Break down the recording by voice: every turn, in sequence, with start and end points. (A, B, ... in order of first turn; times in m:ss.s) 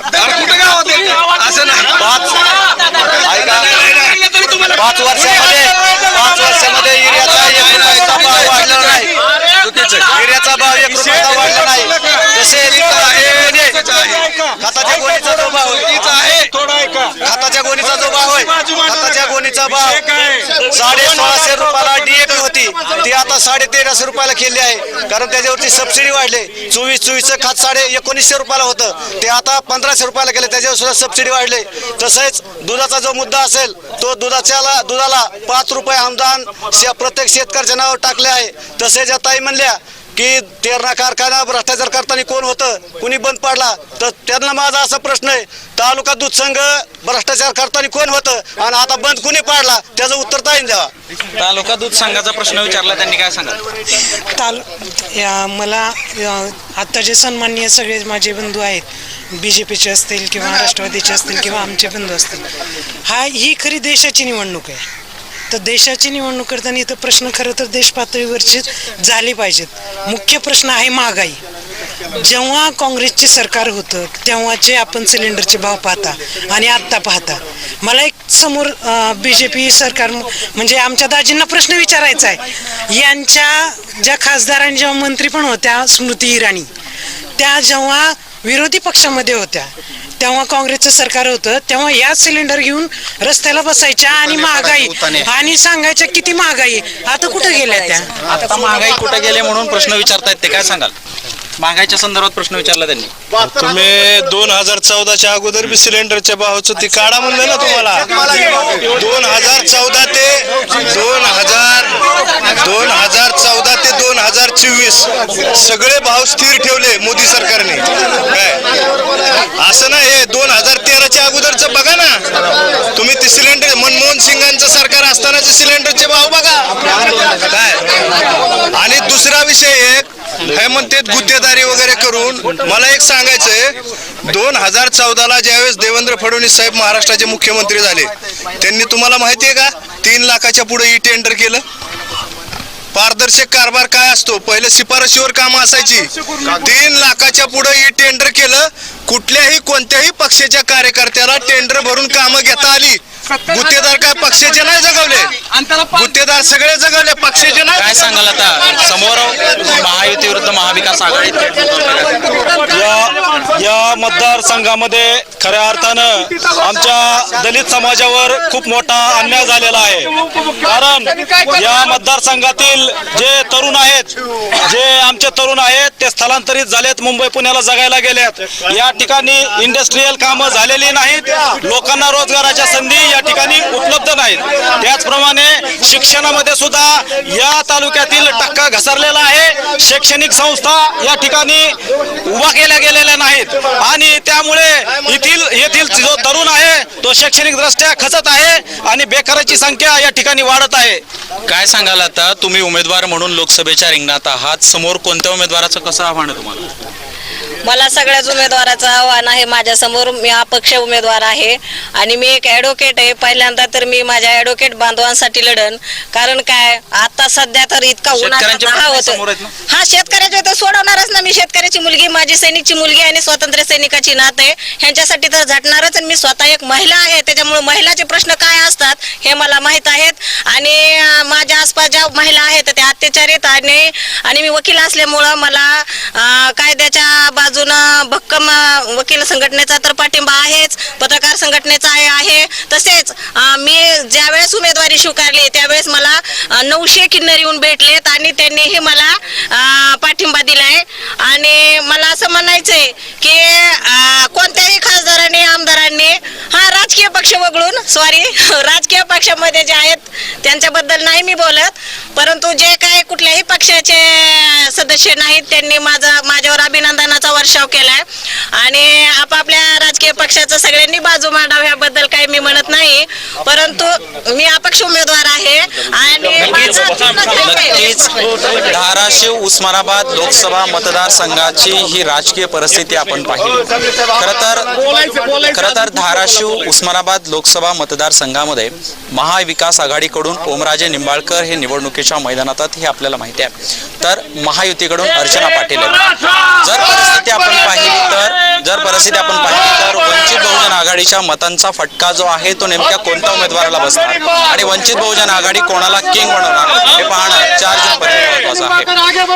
0:00.1-0:02.1 A
0:03.2-0:03.7 B
0:03.3-0:03.7 A
0:04.7-0:09.1 B
0:07.2-0:09.1 A
0:09.6-0:10.1 A
0:10.1-0:13.8 B
0:11.0-0:11.7 A
0:12.5-0:14.3 A
0:14.6-0:15.9 B
0:15.8-0:17.1 A
0:17.2-0:20.0 B
0:20.7-0:50.9 B
0:51.4-0:53.6 C
0:54.3-1:02.4 D
1:03.1-1:04.8 D
1:05.5-1:11.4 D
1:12.1-1:26.7 D
1:27.4-1:38.1 D
1:38.2-1:40.9 C
1:41.6-1:43.1 C
1:43.4-1:52.0 E
1:52.6-1:58.6 E
1:59.6-2:02.2 E
2:02.9-2:07.9 E
2:08.7-2:21.6 E
2:22.9-2:37.9 E
2:37.8-2:42.4 C
2:42.7-3:21.0 F
3:21.5-3:26.7 C
3:27.6-4:28.0 G
3:38.1-3:39.5 C
4:28.6-4:38.0 G
4:36.4-4:56.0 C
4:56.6-5:08.9 C